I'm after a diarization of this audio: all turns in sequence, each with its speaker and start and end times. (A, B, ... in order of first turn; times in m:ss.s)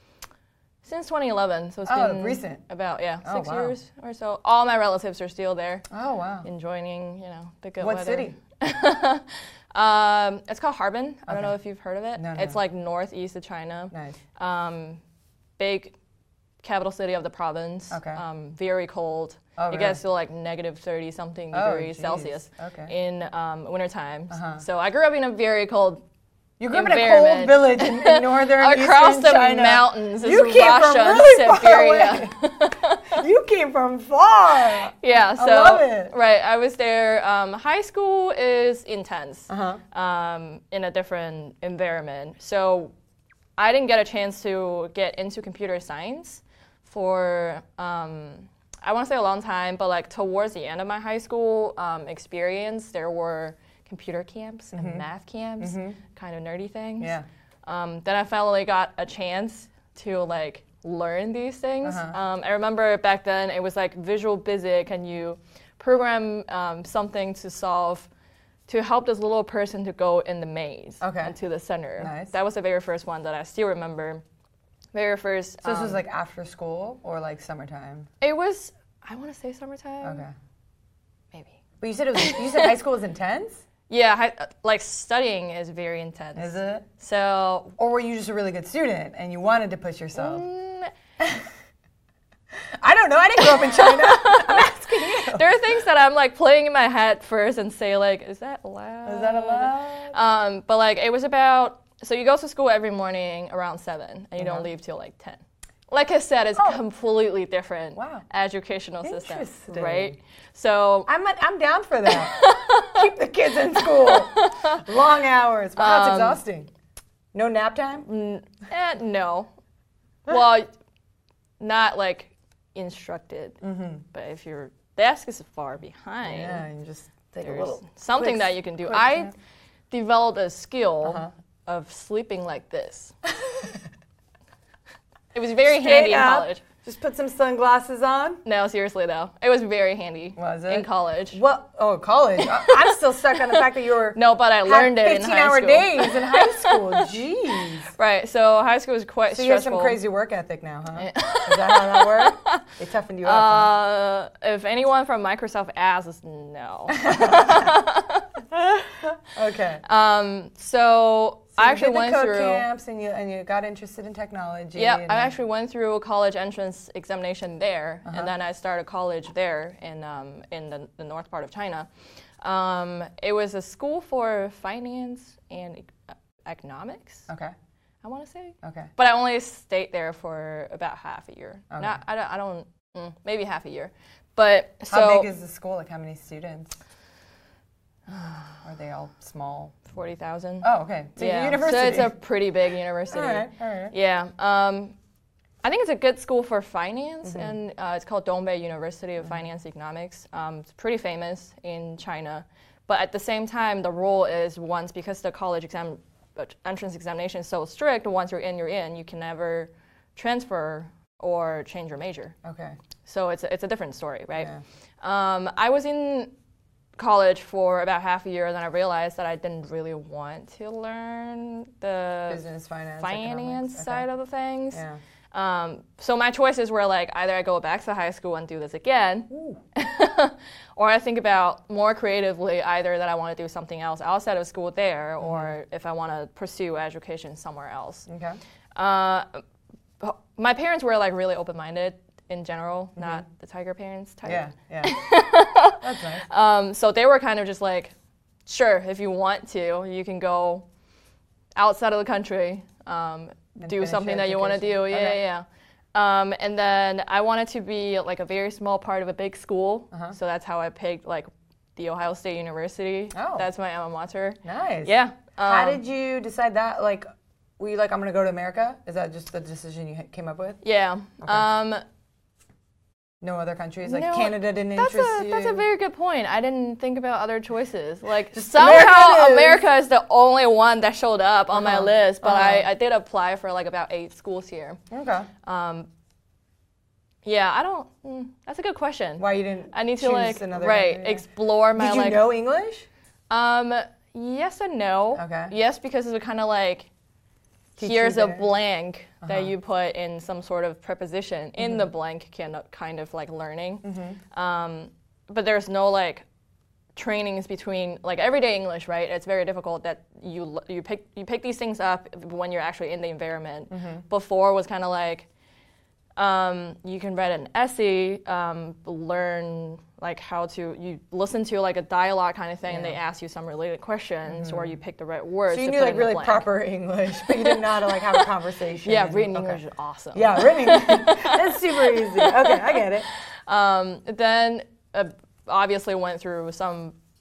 0:00.8-0:05.8 A
0:01.8-0:02.6 B
0:03.2-0:03.7 B
0:05.9-0:06.5 B
0:06.4-0:15.0 A
0:07.8-0:08.4 B
0:11.3-0:11.5 B
0:12.2-0:12.6 B
0:13.9-0:14.2 B
0:15.6-0:15.9 A
0:16.6-0:26.0 A
0:17.9-0:18.2 B
0:19.6-0:20.0 B
0:21.5-0:22.9 B
0:24.3-0:24.6 B
0:26.6-0:32.4 B
0:26.7-0:33.2 A
0:33.1-0:36.1 B
0:35.0-0:42.9 A
0:39.5-0:39.8 B
0:43.6-1:08.1 A
0:54.7-0:55.0 B
0:55.6-0:56.0 B
0:57.0-0:57.2 B
1:01.8-1:02.2 B
1:08.7-1:14.2 A
1:11.0-1:11.3 B
1:12.0-1:12.3 B
1:14.9-1:16.0 A
1:15.6-1:18.1 B
1:18.2-1:20.2 A
1:20.0-1:20.3 B
1:21.3-1:21.6 A
1:21.8-1:23.6 B
1:22.2-1:22.7 A
1:23.9-1:27.8 A
1:26.4-1:26.9 B
1:27.8-1:30.4 B
1:30.1-1:30.9 A
1:31.2-1:31.5 B
1:32.8-1:35.4 B
1:33.4-1:51.1 A
1:39.0-1:40.1 B
1:44.4-1:44.6 B
1:46.6-1:46.8 B
1:47.9-1:48.2 B
1:49.0-1:50.2 B
1:51.1-1:56.7 B
1:52.1-1:53.1 A
1:53.7-1:54.8 A
1:55.8-1:56.4 A
1:57.3-1:58.1 B
1:58.0-1:59.5 A
2:00.3-2:00.7 A
2:01.6-2:03.6 A
2:03.6-2:04.0 B
2:04.1-2:06.6 A
2:06.2-2:09.3 B
2:07.4-2:09.3 A
2:09.9-2:13.1 A
2:11.0-2:11.3 B
2:15.3-2:16.6 A
2:15.6-2:18.4 B
2:18.4-2:21.4 A
2:20.4-2:27.9 B
2:24.1-2:27.0 A
2:27.9-2:30.0 A
2:29.3-2:33.7 B
2:31.0-2:32.6 A
2:33.2-2:38.4 A
2:36.9-2:37.8 B
2:39.3-2:39.8 B
2:39.8-2:42.6 A
2:41.6-2:45.3 B
2:44.8-2:51.9 A
2:48.0-2:48.3 B
2:52.4-2:57.3 A
2:57.3-2:57.5 B
2:58.0-3:05.3 A
2:58.6-2:58.9 B
3:01.7-3:02.0 B
3:04.9-3:06.8 B
3:08.1-3:08.6 A
3:08.6-3:09.8 B
3:09.8-3:14.9 A
3:10.6-3:12.1 B
3:13.1-3:13.9 B
3:15.6-3:32.4 A
3:17.2-3:17.5 B
3:32.4-3:32.8 B
3:33.0-3:34.5 A
3:34.4-3:34.6 B
3:35.0-3:36.3 A
3:37.0-3:42.4 A
3:42.3-3:44.0 B
3:43.0-3:58.1 A
3:44.7-3:45.0 B
3:49.3-3:49.6 B
3:55.2-3:55.5 B
3:58.1-3:58.4 B
3:58.7-3:59.4 A
4:00.0-4:07.9 A
4:03.0-4:03.2 B
4:04.2-4:05.0 B
4:05.8-4:06.2 B
4:08.4-4:10.6 A
4:11.6-4:25.8 A
4:13.6-4:15.2 B
4:23.1-4:23.4 B
4:24.4-4:27.0 B
4:27.6-4:30.6 B
4:30.6-4:31.8 A
4:33.2-4:35.6 B
4:33.8-4:44.8 A
4:38.3-4:39.6 B
4:41.5-4:42.7 B
4:44.9-4:45.3 B
4:45.4-4:45.9 A
4:47.2-4:52.3 A
4:49.2-4:52.9 B
4:53.3-4:56.9 A
4:55.1-4:55.5 B
4:57.8-4:58.5 B
4:57.8-5:06.2 A
4:59.2-4:59.5 B
5:01.6-5:01.8 B
5:03.8-5:04.2 B
5:06.9-5:15.3 A
5:13.7-5:14.0 B
5:16.2-5:26.5 A
5:22.7-5:23.0 B
5:24.3-5:24.7 B
5:25.5-5:29.6 B
5:27.2-5:28.3 A
5:28.8-5:32.8 A
5:30.1-5:33.1 B
5:33.5-5:37.0 A